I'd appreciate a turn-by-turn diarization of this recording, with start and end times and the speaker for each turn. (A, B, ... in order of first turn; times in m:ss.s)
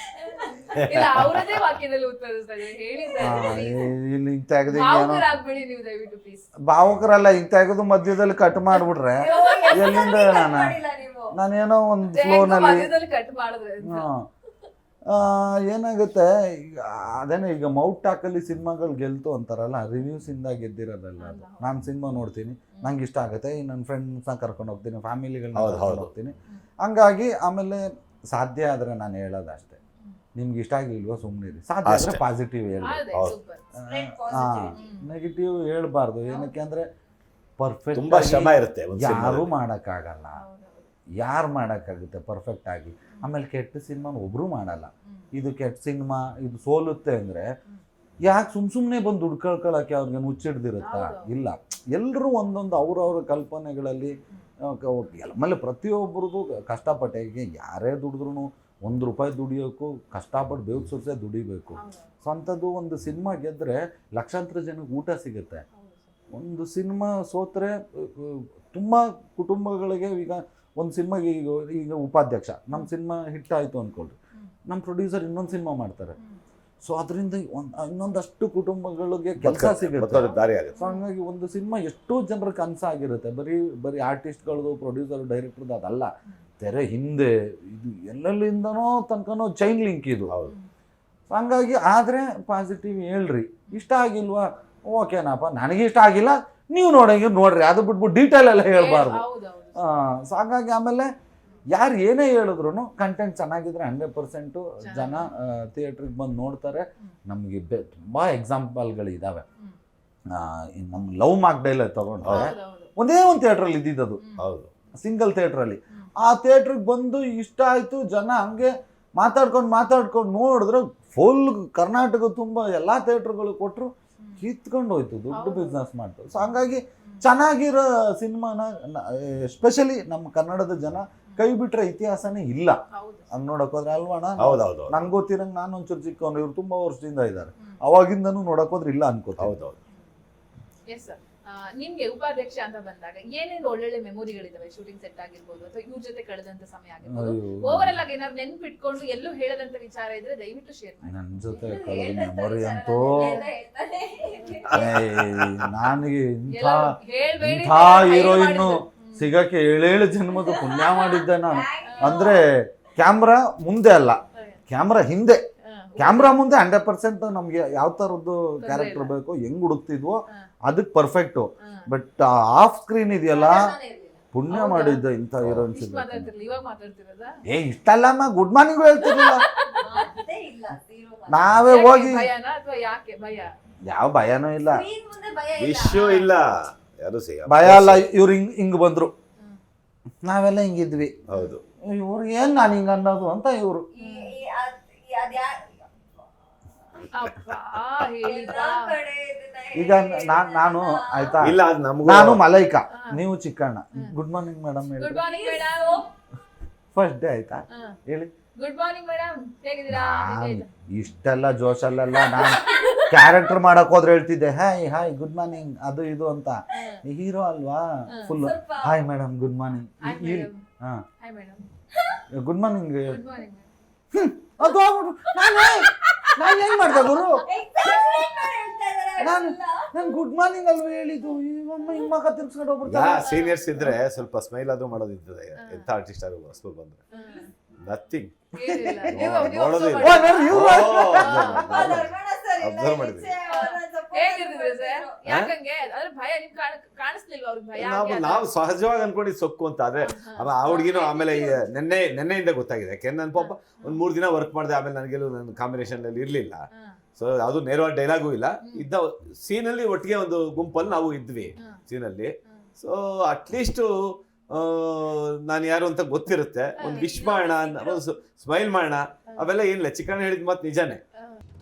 0:00.2-0:00.7 A
0:00.4-0:03.9 B
0:00.8-0:01.7 C
0:03.2-0:05.3 D
0:04.7-0:06.5 B
0:06.7-0:10.8 D
0:09.2-0:11.3 A
0:11.3-0:12.9 D
0:12.1-0:14.1 B
0:13.8-0:14.2 D
0:15.1-0:29.8 D
0:21.2-0:21.7 B
0:25.5-0:26.1 C
0:30.4-0:33.0 D
0:31.8-0:32.2 C
0:32.8-0:33.6 B
0:33.1-0:33.4 C
0:33.8-0:36.8 D
0:33.8-0:34.8 A
0:34.8-0:35.1 B
0:37.6-0:40.4 D
0:37.9-0:39.5 C
0:40.3-0:40.9 B
0:41.2-0:47.4 D
0:48.2-0:54.1 D
0:50.8-0:51.3 B
0:54.7-1:05.6 D
1:01.8-1:02.1 B
1:05.7-1:06.1 B
1:06.3-1:14.2 D
1:14.7-1:16.2 D
1:16.8-1:26.1 D
1:19.4-1:20.8 C
1:20.2-1:21.0 B
1:26.6-1:30.3 D
1:30.3-1:30.5 C
1:31.3-1:39.2 D
1:38.7-1:39.9 B
1:39.8-1:41.1 D
1:41.7-1:49.4 D
1:44.8-1:45.3 B
1:50.3-1:54.2 D
1:52.3-1:52.9 B
1:54.4-1:54.7 C
1:55.0-2:12.8 D
2:05.3-2:05.8 B
2:06.4-2:07.2 B
2:12.9-2:13.3 B
2:13.3-2:19.5 D
2:14.4-2:15.1 C
2:19.4-2:19.8 C
2:20.9-2:31.1 B
2:27.1-2:28.0 D
2:31.0-2:33.4 D
2:31.5-2:34.8 A
2:33.1-2:33.4 B
2:34.7-2:45.4 D
2:34.8-2:35.5 C
2:36.5-2:39.3 B
2:40.3-2:42.4 A
2:41.8-2:42.2 B
2:44.3-2:44.6 B
2:45.6-2:46.4 B
2:46.0-2:53.7 D
2:48.6-2:49.1 B
2:53.3-2:54.2 A
2:54.3-2:56.3 D
2:54.5-2:55.0 B
2:55.7-2:57.3 B
2:57.5-2:59.4 D
2:59.0-2:59.9 B
2:59.7-3:01.6 A
3:01.3-3:02.3 D
3:01.6-3:03.5 B
3:03.9-3:04.8 D
3:04.7-3:06.2 A
3:05.6-3:08.0 C
3:06.0-3:06.3 B
3:07.5-3:09.1 D
3:10.2-3:11.1 D
3:11.3-3:11.6 C
3:11.9-3:13.8 D
3:14.0-3:15.8 A
3:14.0-3:14.3 B
3:17.0-3:18.9 B
3:18.2-3:21.6 A
3:19.7-3:25.2 D
3:21.4-3:22.4 C
3:22.9-3:23.2 B
3:25.0-3:26.0 B
3:25.2-3:26.1 A
3:26.9-3:28.3 D
3:27.7-3:28.0 B
3:28.6-3:30.7 B
3:29.9-3:41.0 D
3:32.2-3:33.3 B
3:36.7-3:37.0 B
3:38.3-3:38.9 A
3:40.0-3:40.6 B
3:41.2-3:41.6 B
3:42.3-3:43.2 D
3:43.0-3:43.6 B
3:44.1-3:47.4 D
3:45.3-3:47.2 B
3:47.4-3:50.1 A
3:49.2-3:53.3 D
3:51.8-3:52.1 A
3:52.8-3:57.0 C
3:53.2-3:54.0 B
3:55.6-3:55.9 B
3:57.1-3:57.5 B
3:57.8-3:58.4 C
3:58.5-4:01.6 B
3:58.7-3:59.4 D
3:59.1-4:03.3 C
4:00.0-4:01.8 D
4:01.6-4:05.3 A
4:03.5-4:08.5 B
4:07.8-4:31.0 C
4:10.0-4:10.6 B
4:10.6-4:11.7 A
4:13.3-4:14.0 B
4:26.8-4:28.0 B